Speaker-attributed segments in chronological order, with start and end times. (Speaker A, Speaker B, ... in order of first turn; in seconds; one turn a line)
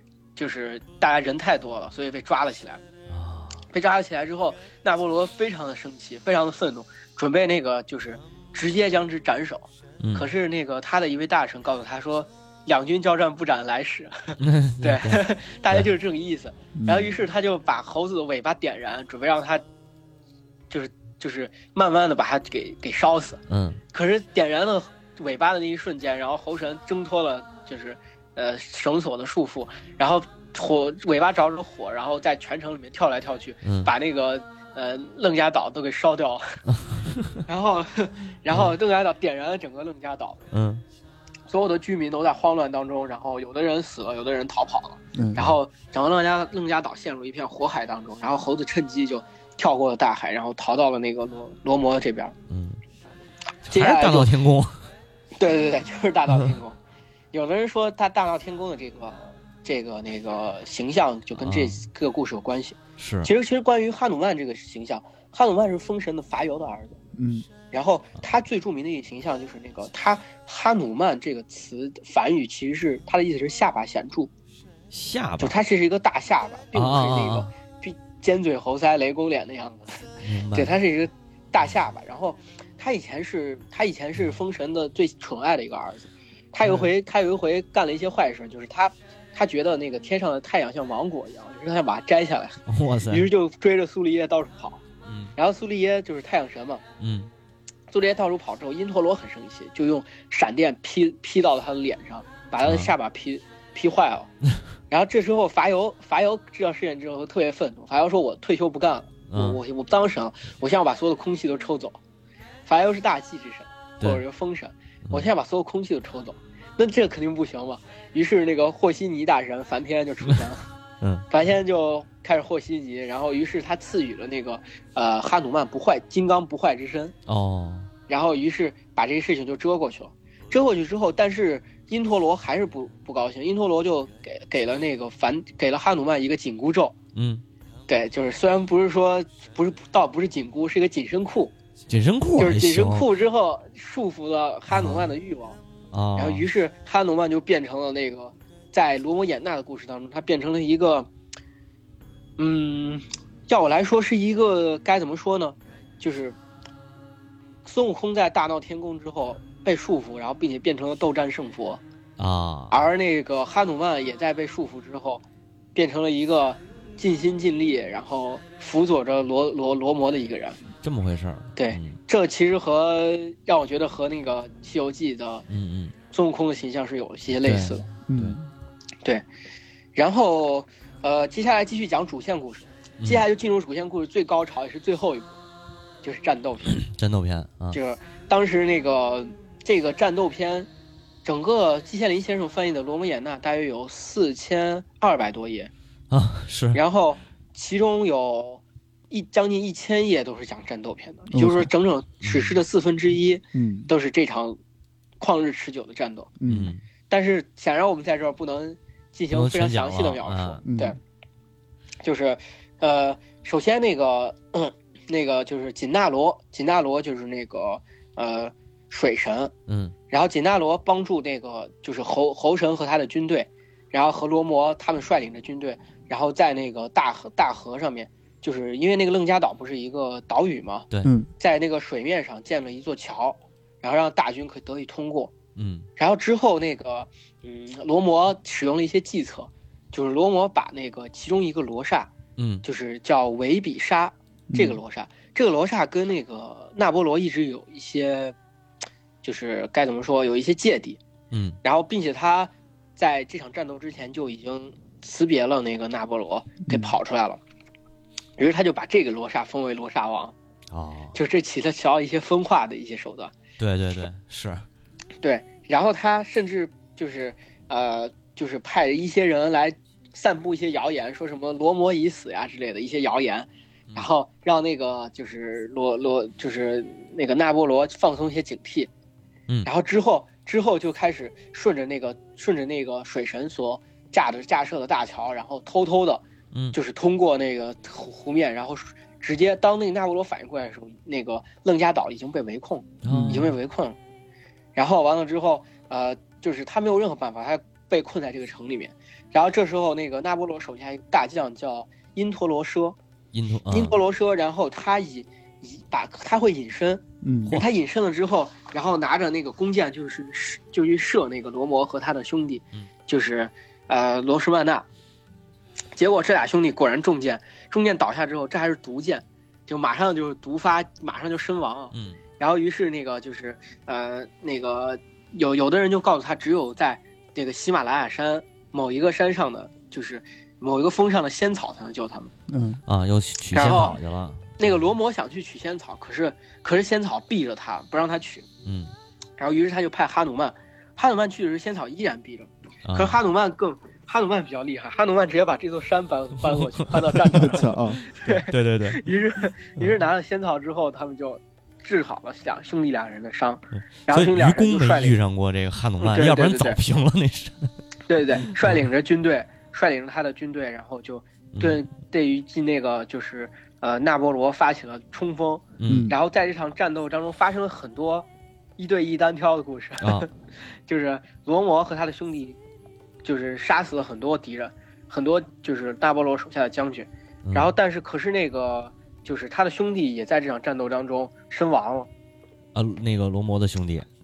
Speaker A: 0.3-2.8
Speaker B: 3.1-3.6
Speaker A: 3.7-19.6
Speaker B: 10.0-10.3
Speaker B: 14.4-15.9
Speaker C: 16.7-17.1
Speaker A: 20.7-23.4
Speaker B: 23.5-23.8
Speaker A: 23.9-36.6
Speaker B: 33.6-33.9
Speaker B: 36.7-37.4
Speaker A: 37.4-40.4
Speaker B: 40.5-40.8
Speaker A: 41.5-52.4
Speaker C: 45.1-45.5
Speaker B: 52.5-52.8
Speaker B: 53.6-54.9
Speaker A: 53.7-54.3
Speaker A: 55.4-56.8
Speaker A: 57.3-67.0
Speaker B: 61.4-61.8
Speaker B: 63.0-63.3
Speaker C: 67.1-67.5
Speaker A: 67.7-74.3
Speaker B: 74.9-75.5
Speaker A: 75.4-94.8
Speaker B: 76.7-77.5
Speaker B: 80.2-80.8
Speaker B: 92.7-93.3
Speaker B: 95.0-95.3
Speaker A: 95.3-96.8
Speaker B: 97.0-97.3
Speaker A: 97.9-104.3
Speaker B: 102.6-102.9
Speaker A: 104.9-112.0
Speaker B: 109.3-109.6
Speaker A: 112.7-120.7
Speaker B: 121.0-121.3
Speaker A: 121.3-127.1
Speaker B: 127.2-127.9
Speaker A: 128.1-136.9
Speaker B: 137.1-137.4
Speaker A: 137.9-141.5
Speaker B: 141.9-143.1
Speaker A: 142.4-145.6
Speaker B: 144.7-145.1
Speaker B: 145.9-146.5
Speaker A: 146.2-151.1
Speaker A: 152.4-156.4
Speaker A: 157.6-161.8
Speaker B: 162.2-162.8
Speaker A: 162.7-165.2
Speaker A: 165.7-170.6
Speaker B: 170.8-172.0
Speaker A: 171.6-175.4
Speaker B: 175.5-175.9
Speaker A: 176.1-177.8
Speaker B: 177.3-178.4
Speaker C: 178.1-178.5
Speaker A: 179.9-185.3
Speaker A: 186.0-186.8
Speaker B: 186.8-187.8
Speaker A: 187.7-190.7
Speaker A: 191.2-195.7
Speaker B: 196.1-196.8
Speaker A: 196.7-204.6
Speaker C: 201.3-201.7
Speaker B: 202.2-202.6
Speaker C: 203.5-203.9
Speaker A: 205.2-206.3
Speaker C: 206.4-206.7
Speaker B: 206.5-206.8
Speaker A: 207.1-211.0
Speaker B: 209.3-210.6
Speaker C: 210.7-211.0
Speaker A: 212.0-219.5
Speaker B: 219.7-219.9
Speaker A: 220.1-230.9
Speaker C: 231.0-231.3
Speaker A: 231.4-235.3
Speaker B: 235.6-235.9
Speaker A: 236.0-242.1
Speaker B: 242.4-242.6
Speaker A: 242.6-248.3
Speaker C: 244.5-244.8
Speaker A: 249.2-251.0
Speaker B: 251.3-251.6
Speaker A: 251.6-257.4
Speaker C: 256.7-256.9
Speaker A: 258.4-260.3
Speaker B: 260.7-261.1
Speaker A: 261.1-263.3
Speaker B: 263.6-264.6
Speaker A: 265.2-278.9
Speaker A: 279.6-294.0
Speaker B: 293.0-293.5
Speaker C: 293.1-293.4
Speaker A: 294.7-302.9
Speaker B: 303.3-304.0
Speaker A: 303.7-314.9
Speaker C: 307.2-307.6
Speaker A: 315.9-332.3
Speaker B: 321.9-322.2
Speaker C: 332.5-332.8
Speaker B: 332.9-334.9
Speaker A: 333.5-334.0
Speaker A: 334.6-338.4
Speaker B: 338.6-338.9
Speaker A: 339.4-355.1
Speaker B: 342.8-343.2
Speaker B: 346.4-347.5
Speaker C: 347.3-348.0
Speaker B: 348.1-349.0
Speaker B: 354.1-357.7
Speaker A: 356.0-356.8
Speaker A: 358.1-368.3
Speaker B: 358.4-358.8
Speaker B: 361.5-361.8
Speaker B: 365.8-366.1
Speaker C: 365.9-366.1
Speaker A: 368.8-370.3
Speaker B: 370.0-370.2
Speaker A: 370.9-372.6
Speaker A: 373.2-382.1
Speaker B: 377.4-377.7
Speaker B: 382.7-384.1